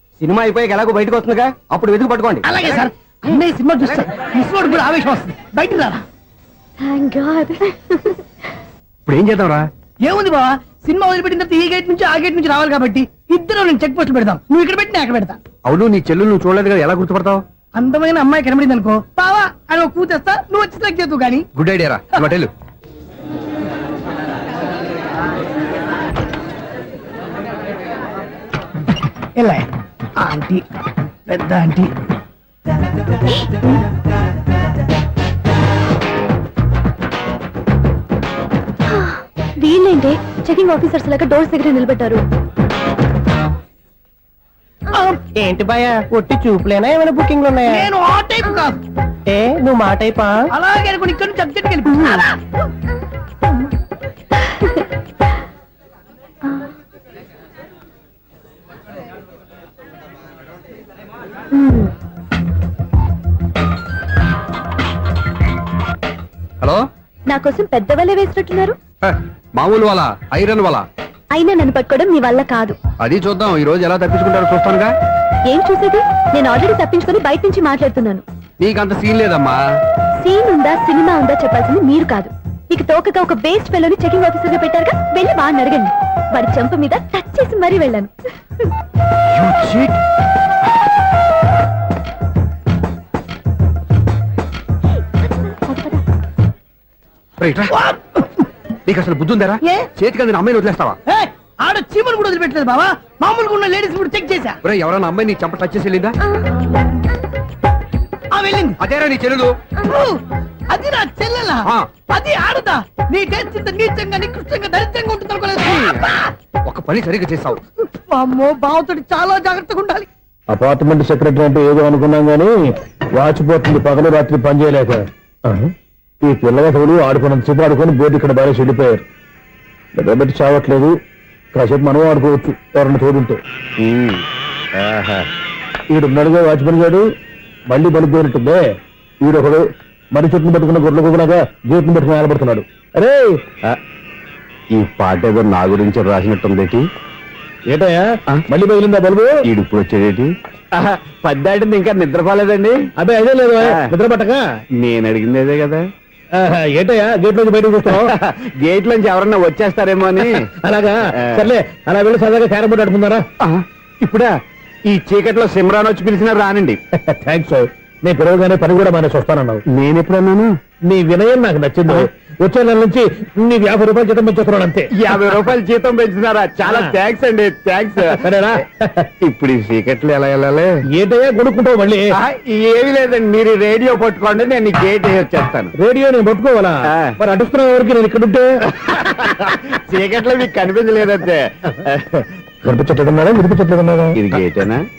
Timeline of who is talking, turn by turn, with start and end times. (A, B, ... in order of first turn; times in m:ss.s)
0:00.2-0:00.6 A
0:01.7-0:02.4 A
0:02.4-0:06.0 B
0:06.8-0:08.2 C
0:09.1-0:09.7 D
0:10.0-0:15.4 B
0:15.6-0:17.4 D
0:17.8-0:21.5 B
0:21.6-0:22.5 D
0:29.4-0:29.7 B
0:30.2-0:30.6 B
0:31.3-0:31.9 B
0:33.3-0:33.6 C
0:38.9-0:42.2 C
0:45.0-0:45.2 B
0:45.4-0:47.9 A
0:47.7-0:48.8 B
0:49.3-0:50.4 A
0:50.5-0:52.4 B
1:01.5-1:01.9 C
1:06.6-1:06.9 D
1:07.3-1:08.8 C
1:09.0-1:10.9 D
1:11.3-1:12.8 C
1:13.0-1:14.9 D
1:15.5-1:18.2 C
1:18.6-1:19.6 D
1:20.2-1:28.7 C
1:29.3-1:30.0 D
1:35.4-1:36.0 C
1:37.4-1:37.7 D
1:37.7-1:38.2 B
1:38.9-1:41.0 D
1:41.1-1:44.6 B
1:44.6-1:46.2 D
1:48.3-1:48.8 B
1:48.8-1:49.6 D
1:49.8-1:50.2 B
1:50.7-1:56.2 B
1:56.6-1:57.6 D
1:58.1-2:00.1 B
2:00.5-2:09.0 E
2:10.0-2:11.0 E
2:11.5-2:13.4 E
2:13.8-2:14.2 F
2:14.8-2:15.2 F
2:15.9-2:17.1 E
2:17.7-2:23.4 E
2:24.7-2:26.9 F
2:27.7-2:29.4 E
2:29.4-2:32.8 F
2:33.0-2:34.4 E
2:33.6-2:33.9 F
2:34.8-2:35.9 F
2:36.4-2:38.1 E
2:37.9-2:40.5 F
2:40.3-2:43.2 E
2:43.4-2:44.3 F
2:44.9-2:46.8 F
2:46.9-2:49.6 E
2:49.7-2:50.6 F
2:50.9-2:54.9 E
2:55.0-2:58.5 F
2:56.6-2:56.9 E
2:58.1-2:59.1 E
2:59.2-3:00.7 F
3:00.9-3:02.0 E
3:02.1-3:05.7 F
3:05.8-3:08.5 E
3:06.9-3:07.2 F
3:08.8-3:12.2 F
3:12.6-3:14.2 E
3:14.2-3:14.9 F